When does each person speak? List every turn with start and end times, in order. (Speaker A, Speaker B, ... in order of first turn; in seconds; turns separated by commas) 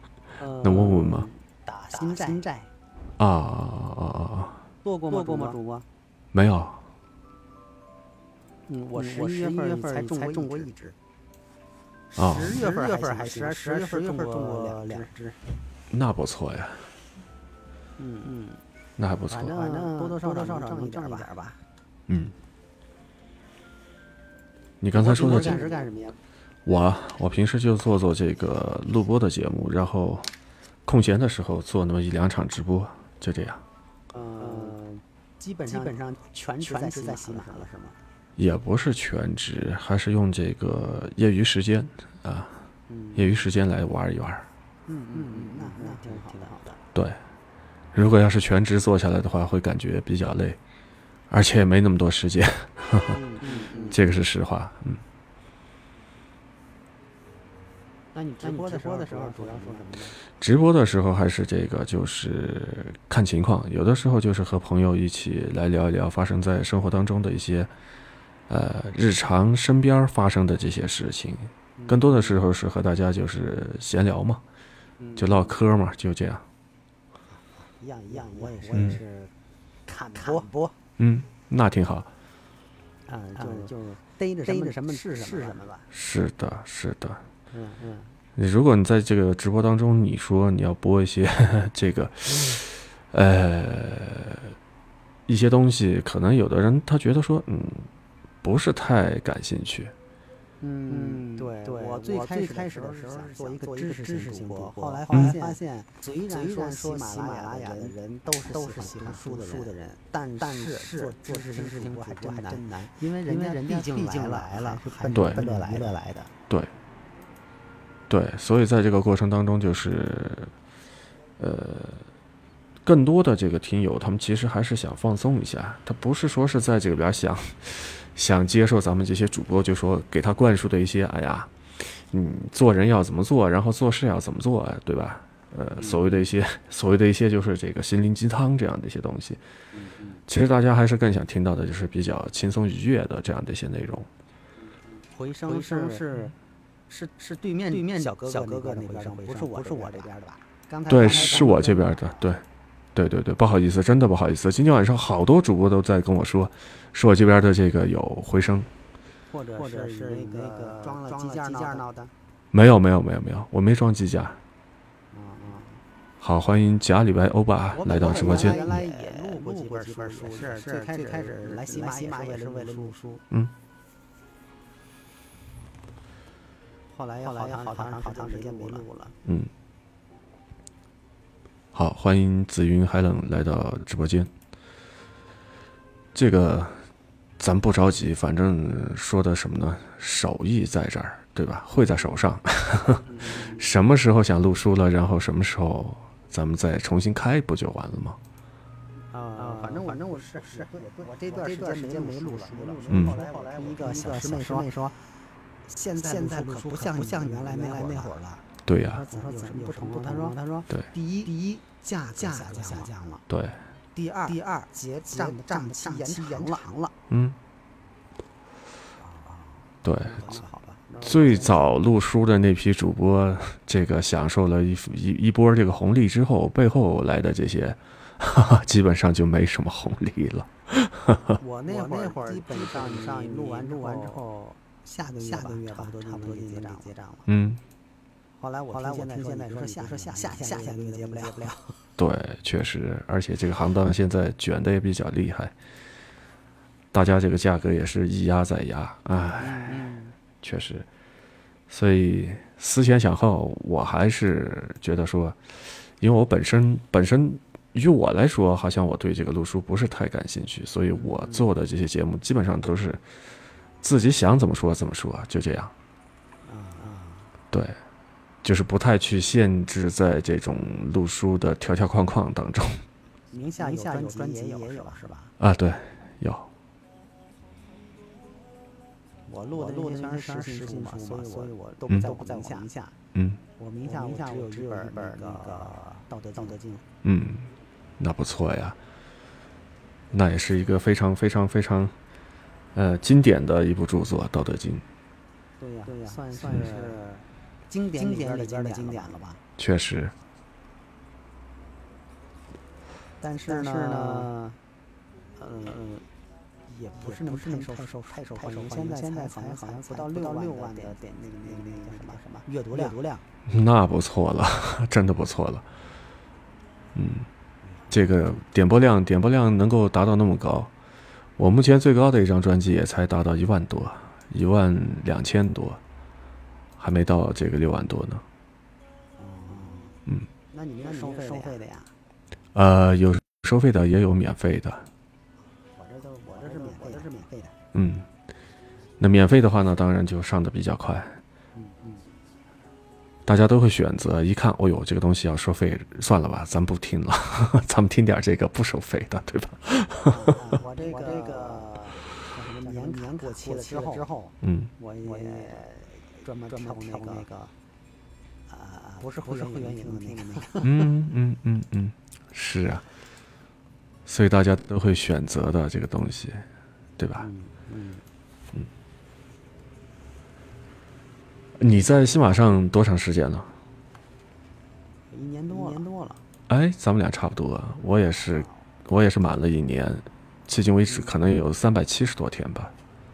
Speaker A: 0.4-2.7, Speaker B: 0.6-1.3, Speaker B: 3.2-4.6, Speaker A: 4.8-5.8, Speaker B: 6.3-6.8, Speaker A: 8.7-11.0, Speaker A: 12.1-15.4, Speaker B: 12.2-12.6, Speaker B: 15.9-16.9, Speaker A: 18.0-18.6, Speaker B: 19.0-19.5, Speaker A: 19.3-21.6, Speaker B: 22.1-22.3, Speaker B: 24.8-25.9, Speaker A: 24.9-26.2, Speaker B: 26.7-30.3, Speaker B: 30.9-33.6, Speaker A: 34.1-38.0, Speaker B: 38.4-42.6, Speaker A: 42.9-43.5, Speaker B: 43.1-44.5, Speaker A: 44.9-46.8, Speaker B: 46.9-47.2, Speaker B: 47.9-50.6, Speaker B: 51.3-53.2, Speaker A: 53.1-54.2, Speaker B: 53.9-55.0, Speaker A: 58.1-60.2, Speaker B: 60.4-67.7, Speaker B: 68.5-74.4, Speaker A: 71.8-72.5, Speaker A: 75.0-75.6, Speaker B: 75.2-76.4, Speaker A: 77.3-79.3, Speaker B: 78.7-79.0, Speaker A: 79.9-80.8, Speaker B: 81.0-82.1, Speaker A: 83.1-85.9, Speaker B: 85.9-87.2, Speaker A: 87.5-88.2, Speaker B: 88.4-94.4, Speaker B: 95.3-97.9, Speaker B: 98.4-99.9, Speaker A: 100.6-116.3, Speaker B: 115.1-115.4, Speaker B: 118.1-120.5, Speaker B: 121.4-122.1, Speaker B: 122.8-139.4, Speaker A: 135.8-136.1, Speaker A: 139.7-140.2, Speaker B: 140.3-144.1, Speaker A: 145.1-146.4, Speaker A: 146.9-152.3, Speaker B: 150.9-152.4, Speaker B: 152.9-158.7, Speaker A: 159.3-162.1, Speaker B: 162.5-164.4, Speaker A: 165.1-165.8, Speaker B: 166.2-168.8, Speaker A: 167.7-173.2, Speaker A: 176.9-179.2, Speaker B: 179.2-179.5, Speaker B: 181.7-184.3, Speaker B: 186.2-186.8, Speaker B: 187.4-198.2, Speaker A: 193.1-193.8, Speaker A: 199.1-205.1, Speaker B: 202.9-203.2, Speaker A: 205.7-213.2, Speaker B: 208.7-209.0, Speaker B: 213.3-213.6, Speaker A: 213.9-216.9, Speaker B: 217.1-217.4, Speaker A: 219.0-221.7, Speaker B: 219.8-220.3, Speaker B: 221.0-231.4, Speaker A: 231.4-237.3, Speaker B: 237.3-237.6, Speaker A: 238.4-241.8, Speaker B: 242.0-245.6, Speaker B: 246.9-250.9, Speaker A: 249.3-250.2, Speaker B: 251.7-263.2, Speaker A: 260.9-261.5, Speaker B: 263.8-265.7, Speaker A: 266.4-267.3, Speaker B: 267.5-267.8, Speaker B: 268.4-272.8, Speaker A: 273.3-275.3, Speaker B: 275.4-276.5, Speaker A: 279.3-282.9, Speaker B: 283.1-283.4, Speaker A: 283.6-286.9, Speaker B: 287.0-288.8, Speaker B: 290.1-291.9, Speaker B: 292.8-294.9, Speaker A: 295.6-299.4, Speaker B: 299.6-300.1, Speaker A: 303.2-304.6, Speaker A: 305.4-306.1, Speaker A: 306.7-313.2, Speaker B: 313.5-315.6, Speaker B: 316.9-317.3, Speaker A: 317.7-318.1, Speaker B: 317.9-320.7, Speaker B: 321.4-325.8, Speaker B: 326.8-328.2, Speaker A: 329.2-330.0, Speaker A: 330.5-331.9, Speaker B: 332.5-334.9, Speaker A: 335.8-337.6, Speaker B: 337.7-338.1, Speaker B: 339.0-341.2, Speaker A: 341.5-342.1, Speaker B: 343.3-350.6, Speaker A: 350.0-357.5, Speaker B: 354.4-354.7, Speaker A: 358.5-360.9, Speaker B: 360.6-362.8, Speaker B: 364.1-366.4, Speaker B: 367.0-367.3, Speaker A: 367.2-368.0, Speaker B: 371.6-373.5, Speaker A: 375.1-376.2, Speaker B: 376.5-382.7, Speaker A: 378.1-378.6